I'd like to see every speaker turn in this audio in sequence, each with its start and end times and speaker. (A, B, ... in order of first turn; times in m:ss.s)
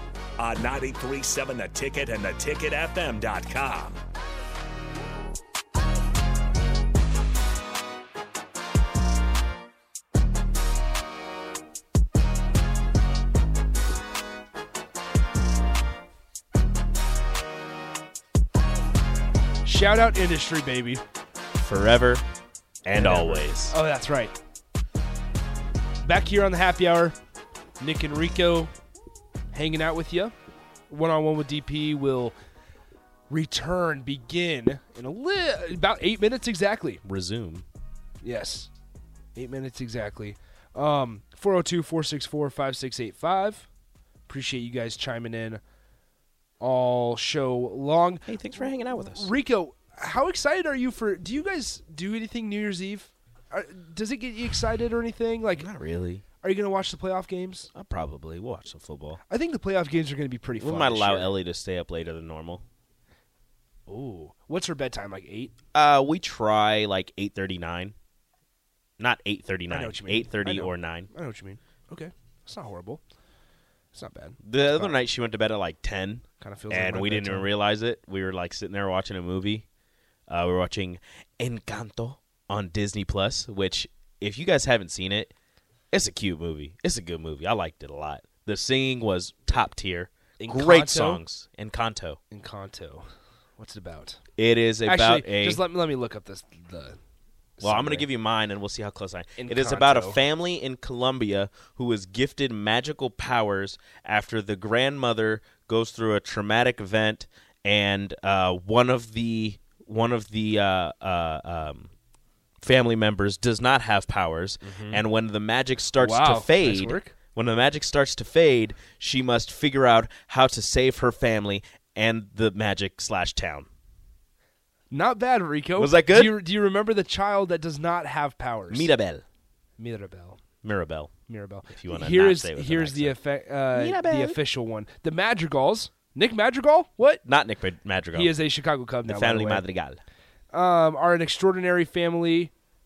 0:00.4-0:04.0 A
0:19.6-0:21.0 B
0:21.6-0:22.2 C
0:22.8-0:23.7 C
0:22.9-0:24.3 B
0:26.0-0:27.1 B
0:27.8-0:28.7 B
0:29.5-0:30.3 B
0:30.9-0:32.4 B
0:33.3-0:37.0 B
0:37.0-0:37.6 C
0:38.2-0:38.7 B
0:39.3-0:43.7 B
0:44.3-0:45.6 B
0:46.6-0:55.7 B
0:48.3-0:49.3 C
0:55.5-0:56.2 C
0:56.4-0:57.7 B
0:57.7-0:59.2 C
0:59.3-1:01.4 B
1:00.6-1:02.6 C
1:03.9-1:05.5 B
1:05.7-1:07.9 C
1:09.0-1:11.1 C
1:09.7-1:13.0 B
1:13.9-1:15.0 B
1:14.4-1:19.6 C
1:16.4-1:17.5 B
1:20.3-1:25.3 C
1:25.9-1:32.2 C
1:30.4-1:31.2 B
1:32.3-1:33.0 B
1:33.6-1:34.2 B
1:34.4-1:35.6 C
1:34.8-1:37.0 B
1:37.6-1:38.1 B
1:37.6-1:51.9 C
1:39.4-1:40.2 B
1:52.6-2:03.7 C
1:54.6-1:55.0 B
1:56.0-1:57.2 B
2:04.9-2:08.9 B
2:05.8-2:06.4 C
2:08.7-2:09.2 C
2:09.8-2:10.4 B
2:10.6-2:11.1 C
2:11.3-2:17.2 B
2:11.7-2:13.2 C
2:13.7-2:14.4 C
2:17.2-2:18.4 C
2:18.1-2:19.6 B
2:19.0-2:20.0 C
2:20.5-2:22.5 B